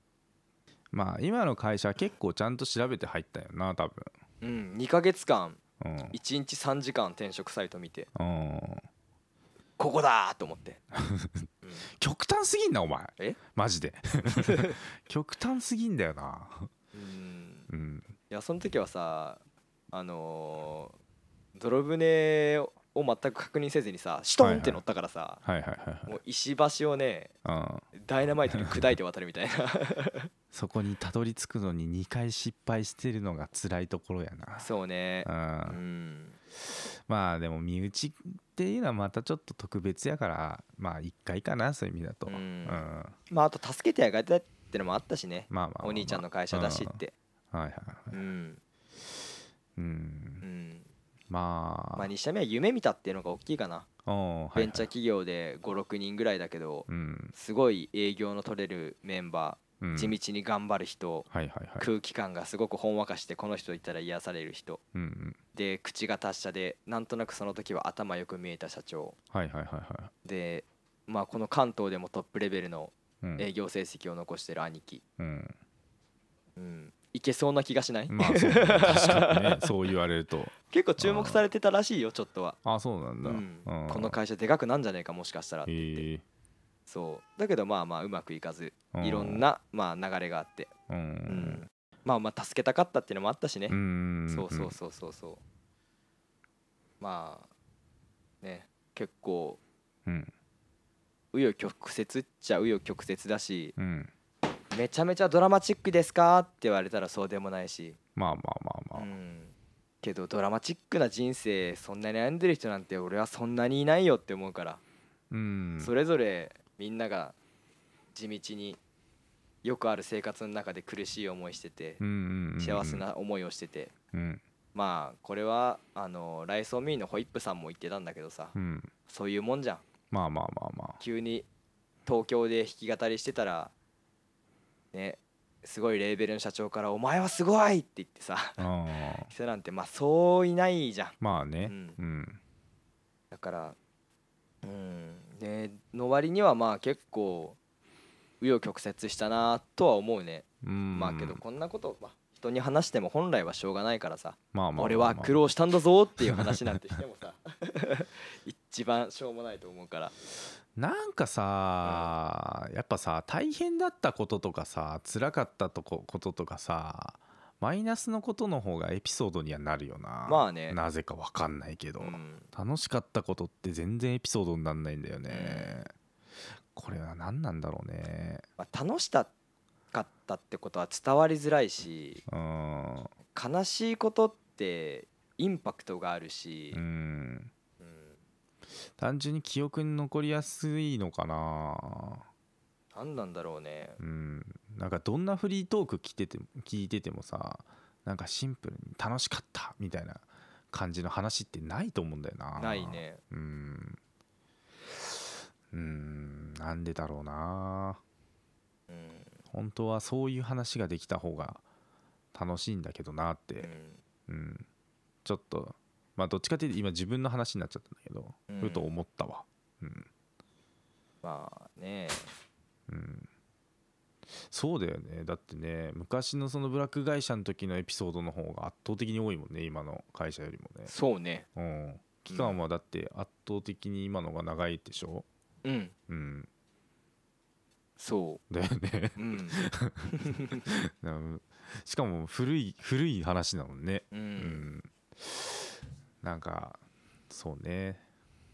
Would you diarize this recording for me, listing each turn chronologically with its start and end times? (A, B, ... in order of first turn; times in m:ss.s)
0:00.9-0:04.1 A
0:04.4-0:05.6 B
0:05.8-0:06.2 A
0:06.1-0:08.1 B
0:08.1-0:08.8 A
0:09.8-0:10.8 B
0:10.9-0:16.7 A
0:14.3-0:14.8 B
0:16.9-0:17.7 B
0:17.7-0:18.1 A
0:18.3-0:19.4 B
0:19.9-0:21.0 B
0:21.5-0:25.4 B
0:24.4-0:24.8 A
0:25.4-0:26.1 A
0:26.0-0:27.3 B
0:27.4-0:27.8 A
0:27.9-0:30.3 B
0:28.5-0:28.8 A
0:30.5-0:34.7 A
0:34.6-0:36.4 B
0:35.2-0:35.8 A
0:36.7-0:43.1 A
0:42.2-0:47.1 B
0:45.5-0:47.0 A
0:47.5-0:48.2 A
0:48.1-0:48.6 B
0:49.8-0:50.4 A
0:50.4-0:50.9 B
0:51.3-0:52.1 A
0:51.9-0:53.9 B
0:54.0-0:54.9 A
0:54.6-1:01.3 B
0:56.9-0:57.3 A
0:59.8-1:00.2 A
1:01.3-1:01.9 A
1:01.8-1:04.8 B
1:04.9-1:05.4 A
1:05.5-1:09.2 B
1:09.3-1:10.1 A
1:10.2-1:15.0 B
1:15.2-1:15.6 A
1:16.6-1:19.7 B
1:18.1-1:21.4 A
1:20.7-1:22.6 B
1:22.6-1:24.2 A
1:23.2-1:26.0 B
1:25.6-1:26.2 A
1:26.9-1:30.7 B
1:28.9-1:29.4 A
1:30.9-1:31.6 A
1:31.3-1:33.8 B
1:33.7-1:34.7 A
1:34.3-1:35.4 B
1:37.0-1:37.5 B
1:38.4-1:39.6 B
1:40.0-1:40.3 A
1:41.3-1:43.7 B
1:43.8-1:44.1 A
1:44.7-1:48.0 B
1:48.2-1:49.1 A
1:48.9-1:54.8 B
1:55.3-1:55.9 A
1:55.8-1:57.4 B
1:58.1-1:58.8 B
1:59.6-2:02.0 B
2:02.0-2:03.0 A
2:02.6-2:03.9 B
2:04.1-2:04.4 A
2:04.7-2:08.5 B
2:08.5-2:08.9 A
2:09.1-2:09.8 B
2:10.1-2:11.0 A
2:11.0-2:11.5 B
2:12.0-2:13.7 B
2:14.9-2:18.7 B
2:18.6-2:19.3 A
2:19.3-2:22.0 B
2:21.2-2:22.4 A
2:23.3-2:23.8 B
2:24.6-2:27.6 B
2:28.4-2:40.1 B
2:30.6-2:31.4 A
2:34.5-2:35.4 A
2:36.3-2:36.8 A
2:40.8-2:55.9 A
2:41.8-2:42.1 B
2:50.2-2:50.8 B
2:52.0-2:52.5 B
2:55.3-2:55.8 B
2:56.7-2:58.4 A
2:58.6-2:59.3 B
2:59.9-3:02.2 B
3:02.3-3:03.1 A
3:03.3-3:06.8 B
3:06.7-3:07.5 A
3:07.8-3:08.2 B
3:09.0-3:12.2 A
3:12.9-3:14.0 B
3:14.0-3:24.0 A
3:22.6-3:23.2 B
3:25.7-3:28.0 A
3:28.9-3:29.3 B
3:29.5-3:31.6 A
3:32.3-3:33.7 A
3:33.6-3:34.0 B
3:34.3-3:34.6 A
3:35.2-3:40.1 A
3:38.5-3:38.9 B
3:41.2-3:42.3 B
3:42.9-3:43.3 A
3:44.3-3:50.9 A
3:50.9-3:51.5 B
3:51.6-3:55.2 A
3:52.3-3:52.6 B
3:55.6-3:55.9 B
3:56.1-3:56.5 A
3:58.0-3:58.4 B
3:58.5-4:08.0 A
3:59.2-4:00.6 B
4:04.1-4:04.7 B